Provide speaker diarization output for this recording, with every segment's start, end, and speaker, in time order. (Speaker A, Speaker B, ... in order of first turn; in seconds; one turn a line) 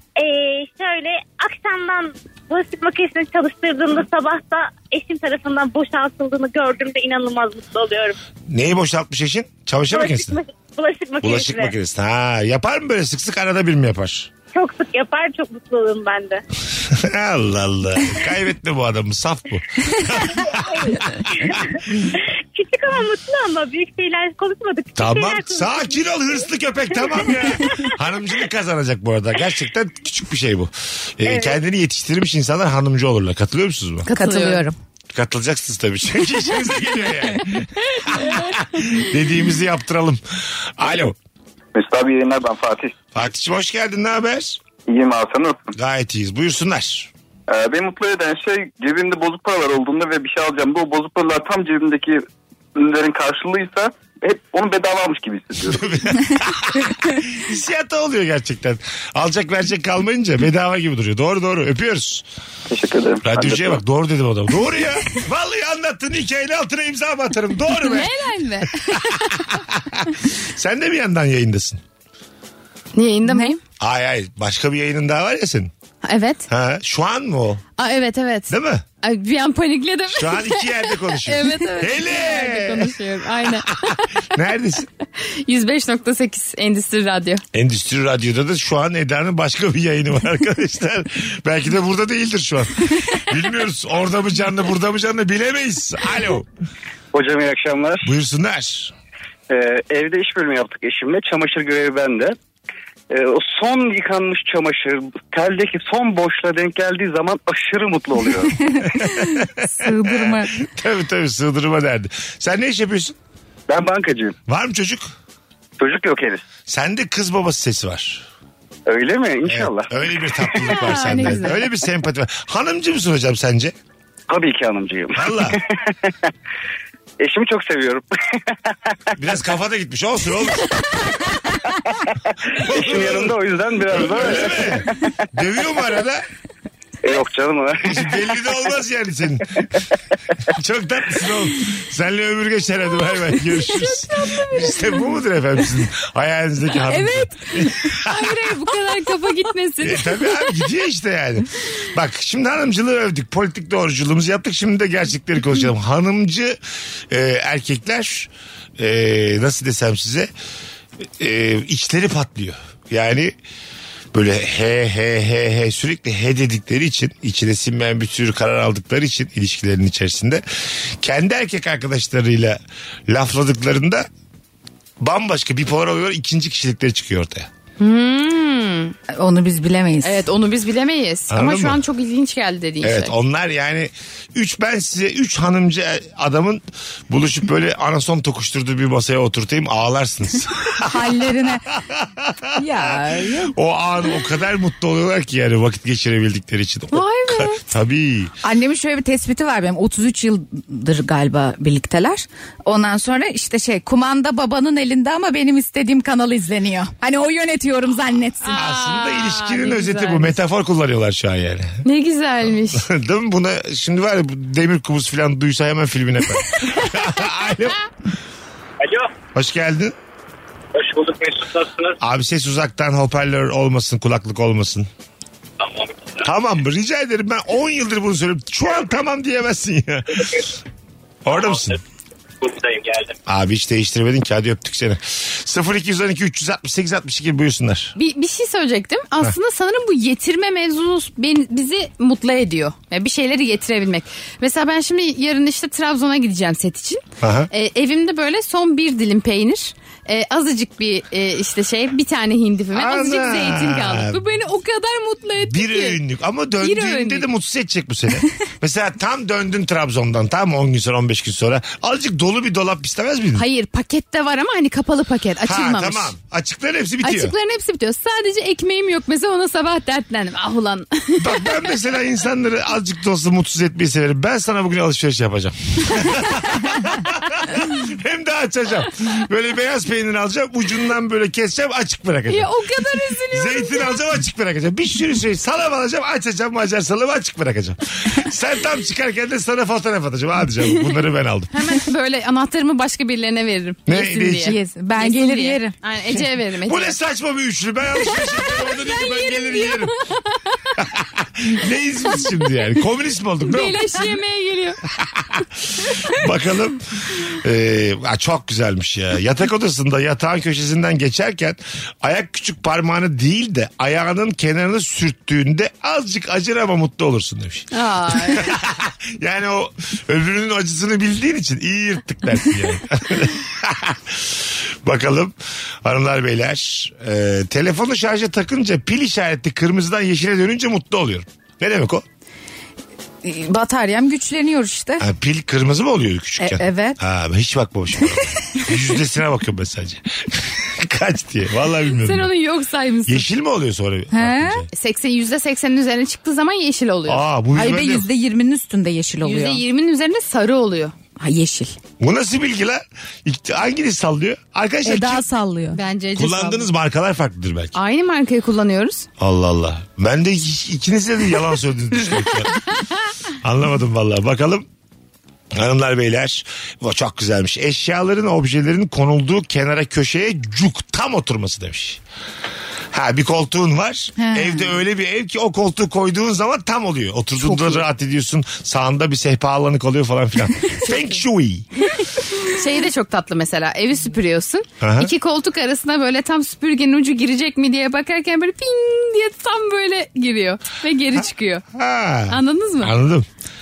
Speaker A: 0.2-8.2
Speaker B: 8.5-10.4
Speaker A: 9.9-11.8
Speaker B: 11.2-14.3
Speaker A: 14.5-16.4
Speaker B: 16.9-21.7
Speaker A: 20.2-26.1
Speaker B: 25.0-34.1
Speaker A: 27.0-27.9
Speaker A: 31.3-31.6
Speaker C: 34.1-34.7
Speaker D: 34.1-34.7
Speaker B: 35.1-40.2
Speaker B: 40.8-41.1
Speaker E: 41.7-42.9
Speaker B: 43.1-44.6
Speaker E: 44.9-45.6
Speaker B: 45.8-47.1
Speaker E: 47.5-52.2
Speaker E: 52.8-55.8
Speaker B: 55.7-62.2
Speaker E: 62.7-63.8
Speaker B: 63.2-68.1
Speaker C: 67.8-69.2
Speaker B: 69.1-71.8
Speaker C: 73.0-73.6
Speaker D: 73.3-73.5
Speaker B: 73.8-75.7
Speaker C: 76.0-76.5
Speaker B: 76.5-77.6
Speaker C: 77.8-84.1
Speaker B: 78.5-78.8
Speaker B: 80.1-83.0
Speaker B: 84.3-84.9
Speaker C: 85.2-87.4
Speaker B: 87.5-96.5
Speaker E: 97.1-98.1
Speaker B: 98.0-98.9
Speaker E: 99.5-102.4
Speaker E: 103.1-108.6
Speaker D: 108.6-110.5
Speaker B: 108.9-113.2
Speaker E: 113.7-114.3
Speaker B: 114.5-115.1
Speaker E: 115.8-116.4
Speaker B: 116.7-118.2
Speaker E: 118.9-120.7
Speaker B: 119.5-123.7
Speaker C: 120.7-121.7
Speaker E: 124.3-125.6
Speaker B: 125.2-125.6
Speaker E: 127.2-128.1
Speaker B: 129.2-130.7
Speaker B: 132.5-136.2
Speaker E: 132.7-135.0
Speaker E: 137.0-138.3
Speaker B: 137.8-139.7
Speaker B: 140.5-148.4
Speaker C: 143.6-145.0
Speaker C: 146.9-150.2
Speaker B: 149.8-156.6
Speaker B: 157.1-160.3
Speaker B: 161.2-163.3
Speaker B: 164.1-170.4
Speaker B: 171.0-174.1
Speaker B: 175.0-177.5
Speaker C: 177.8-178.9
Speaker D: 179.1-180.3
Speaker C: 180.0-183.1
Speaker B: 181.3-181.8
Speaker B: 182.8-198.3
Speaker D: 190.8-191.7
Speaker D: 192.6-193.5
Speaker C: 196.9-197.6
Speaker D: 198.4-208.6
Speaker C: 208.4-210.4
Speaker B: 208.6-211.8
Speaker C: 211.8-212.9
Speaker B: 212.7-217.8
Speaker F: 218.8-219.1
Speaker B: 219.3-219.9
Speaker F: 220.8-221.9
Speaker B: 222.0-224.9
Speaker F: 225.6-225.9
Speaker B: 226.2-230.4
Speaker B: 231.2-231.8
Speaker F: 231.3-231.7
Speaker F: 232.4-233.1
Speaker B: 233.3-237.9
Speaker C: 238.0-256.0
Speaker B: 247.2-247.5
Speaker B: 252.7-254.2
Speaker B: 255.4-263.4
Speaker C: 256.6-257.2
Speaker C: 263.4-266.1
Speaker B: 265.4-267.4
Speaker C: 267.0-271.5
Speaker B: 271.2-282.5
Speaker C: 282.3-284.0
Speaker B: 283.3-291.5
Speaker C: 291.5-297.0
Speaker B: 293.9-294.6
Speaker D: 294.4-295.8
Speaker B: 296.6-299.9
Speaker C: 298.1-300.7
Speaker B: 300.8-304.2
Speaker C: 303.4-304.8
Speaker B: 305.0-332.1
Speaker C: 317.7-318.6
Speaker D: 333.2-335.1
Speaker B: 335.0-342.3
Speaker D: 336.4-337.0
Speaker C: 341.9-343.3
Speaker B: 343.1-344.7
Speaker D: 344.1-344.7
Speaker C: 344.7-347.2
Speaker B: 347.1-348.1
Speaker D: 347.5-349.6
Speaker C: 349.2-350.9
Speaker D: 351.2-351.8
Speaker B: 352.0-355.2
Speaker D: 354.8-355.8
Speaker C: 355.7-356.7
Speaker B: 356.1-357.8
Speaker C: 357.8-359.1
Speaker B: 359.2-362.6
Speaker B: 363.4-364.7
Speaker B: 365.5-372.0
Speaker B: 372.9-381.7
Speaker D: 374.2-374.7
Speaker C: 382.4-391.6
Speaker B: 384.8-385.1
Speaker B: 391.7-393.3
Speaker C: 392.3-392.9